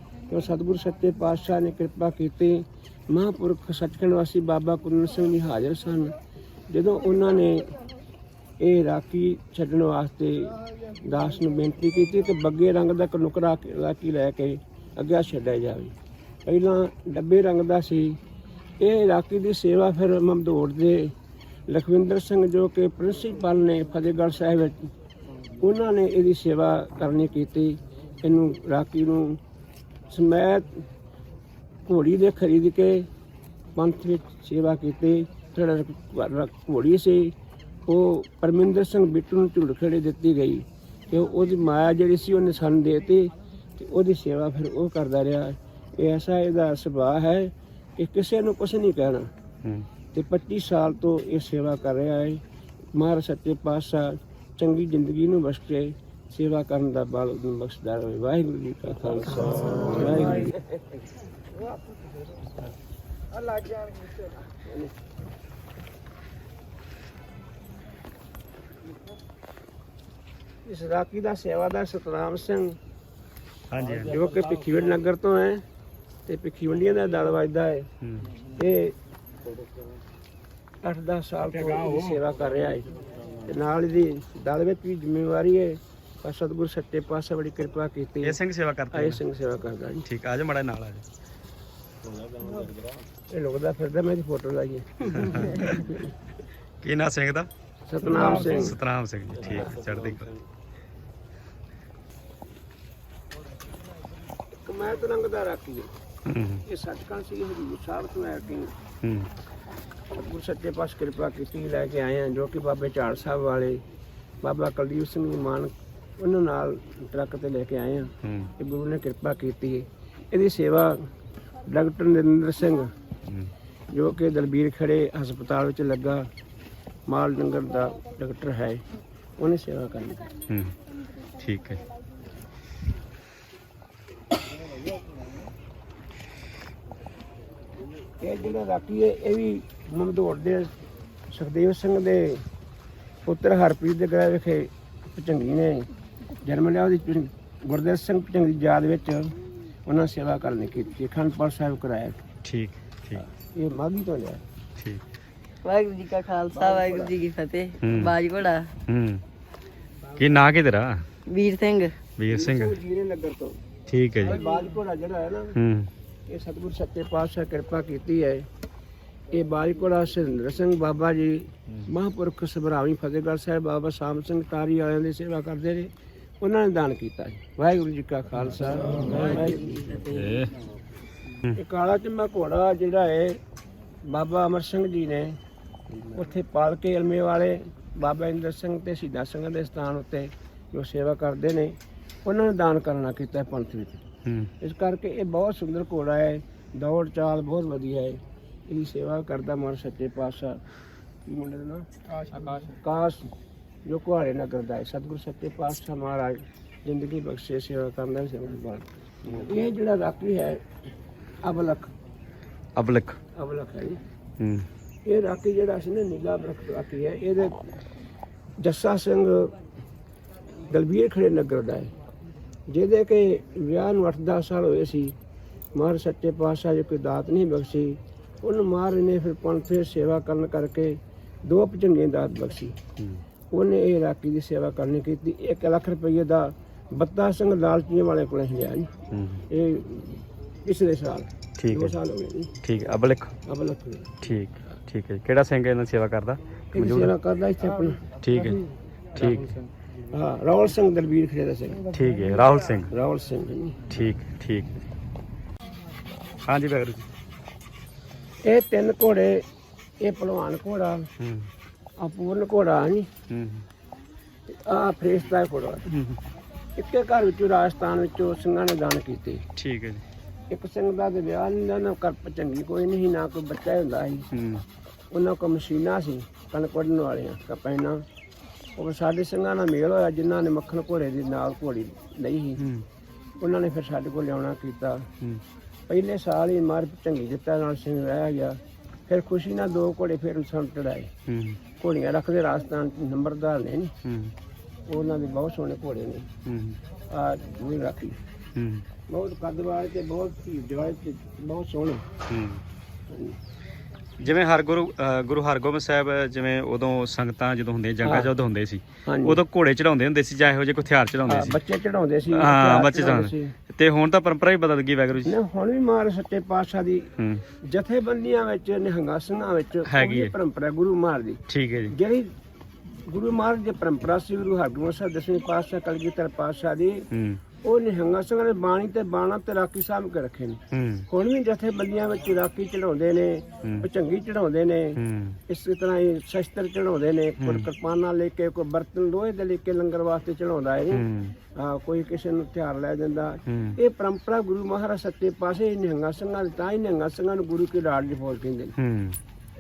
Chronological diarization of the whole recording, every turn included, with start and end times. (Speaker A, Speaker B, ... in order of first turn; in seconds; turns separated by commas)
Speaker A: 0.3-6.2, Speaker A: 6.7-7.7, Speaker A: 8.6-15.9, Speaker A: 16.4-18.2, Speaker A: 18.8-21.1, Speaker A: 21.7-24.9, Speaker A: 25.6-29.4, Speaker A: 30.1-30.9, Speaker A: 31.9-33.1, Speaker A: 33.8-37.3, Speaker A: 37.9-49.3, Speaker A: 50.1-52.4, Speaker A: 52.9-60.6, Speaker A: 63.5-63.9, Speaker A: 64.5-64.9, Speaker A: 70.6-72.8, Speaker B: 73.7-74.2, Speaker A: 74.0-75.6, Speaker A: 76.2-77.9, Speaker B: 78.0-78.3, Speaker A: 78.5-78.9, Speaker A: 80.8-82.9, Speaker A: 83.4-90.0, Speaker B: 88.2-89.2, Speaker B: 90.0-91.0, Speaker A: 93.3-96.0, Speaker B: 95.1-95.8, Speaker B: 96.8-97.5, Speaker A: 97.8-98.8, Speaker B: 98.5-100.3, Speaker A: 104.6-105.9, Speaker B: 106.2-106.6, Speaker A: 106.6-108.7, Speaker B: 109.0-109.3, Speaker A: 110.1-113.8, Speaker A: 114.4-121.0, Speaker B: 118.2-118.5, Speaker A: 121.7-122.9, Speaker A: 123.9-126.2, Speaker A: 127.1-128.8, Speaker A: 129.4-130.3, Speaker B: 130.5-130.8, Speaker B: 131.4-131.8, Speaker A: 138.2-140.7, Speaker A: 141.3-142.4, Speaker A: 143.2-145.9, Speaker A: 146.4-149.3, Speaker A: 149.9-152.2, Speaker B: 152.4-153.2, Speaker A: 153.1-154.4, Speaker C: 155.6-158.7, Speaker A: 156.5-157.2, Speaker B: 157.8-158.2, Speaker B: 158.9-159.2, Speaker B: 160.2-161.1, Speaker C: 161.2-162.0, Speaker B: 162.2-162.8, Speaker A: 162.2-163.6, Speaker B: 163.9-164.4, Speaker A: 164.2-165.6, Speaker B: 165.5-165.9, Speaker A: 166.3-168.4, Speaker A: 169.3-179.8, Speaker B: 179.9-180.5, Speaker A: 181.5-183.4, Speaker A: 184.1-185.4, Speaker A: 186.0-194.0, Speaker B: 194.2-194.5, Speaker A: 194.6-200.6, Speaker A: 201.3-203.3, Speaker A: 203.8-210.6, Speaker A: 211.4-211.9, Speaker B: 212.8-213.2, Speaker A: 213.3-214.0, Speaker B: 214.4-214.7, Speaker A: 215.0-217.6, Speaker A: 218.6-219.5, Speaker A: 220.7-221.9, Speaker A: 222.7-225.1, Speaker A: 225.7-232.7, Speaker B: 233.0-233.2, Speaker A: 233.5-238.9, Speaker B: 239.1-239.4, Speaker A: 239.5-242.6, Speaker B: 241.6-242.0, Speaker B: 242.6-243.3, Speaker A: 243.4-244.8, Speaker B: 244.2-247.1, Speaker A: 246.7-248.1, Speaker B: 248.2-248.6, Speaker B: 249.1-249.6, Speaker A: 250.1-251.9, Speaker B: 251.9-252.9, Speaker A: 252.8-253.8, Speaker B: 253.9-254.8, Speaker B: 256.4-257.1, Speaker A: 258.4-259.4, Speaker A: 260.0-261.1, Speaker B: 261.2-261.5, Speaker A: 262.0-263.1, Speaker B: 263.3-263.6, Speaker A: 264.5-265.9, Speaker B: 265.9-266.2, Speaker A: 266.8-269.4, Speaker B: 269.6-270.0, Speaker A: 270.5-274.3, Speaker B: 274.3-274.6, Speaker A: 275.1-278.0, Speaker A: 278.8-282.7, Speaker B: 282.6-282.8, Speaker A: 283.4-285.1, Speaker A: 285.9-291.1, Speaker B: 291.3-291.6, Speaker A: 291.7-293.9, Speaker B: 294.0-294.3, Speaker A: 294.9-296.3, Speaker B: 296.4-296.8, Speaker A: 297.1-298.2, Speaker B: 298.6-298.8, Speaker A: 299.1-302.0, Speaker B: 302.3-302.6, Speaker A: 303.1-303.4, Speaker B: 304.2-311.6, Speaker A: 308.0-308.3, Speaker A: 309.1-309.4, Speaker A: 311.2-313.6, Speaker B: 312.3-315.3, Speaker A: 315.2-322.3, Speaker B: 317.2-317.4, Speaker B: 319.9-320.3, Speaker B: 321.5-321.9, Speaker A: 323.0-327.1, Speaker B: 327.1-327.4, Speaker A: 327.6-348.7, Speaker B: 330.7-331.1, Speaker B: 335.0-335.4, Speaker B: 337.4-337.6, Speaker B: 340.9-341.4, Speaker B: 343.5-343.8, Speaker B: 348.8-349.2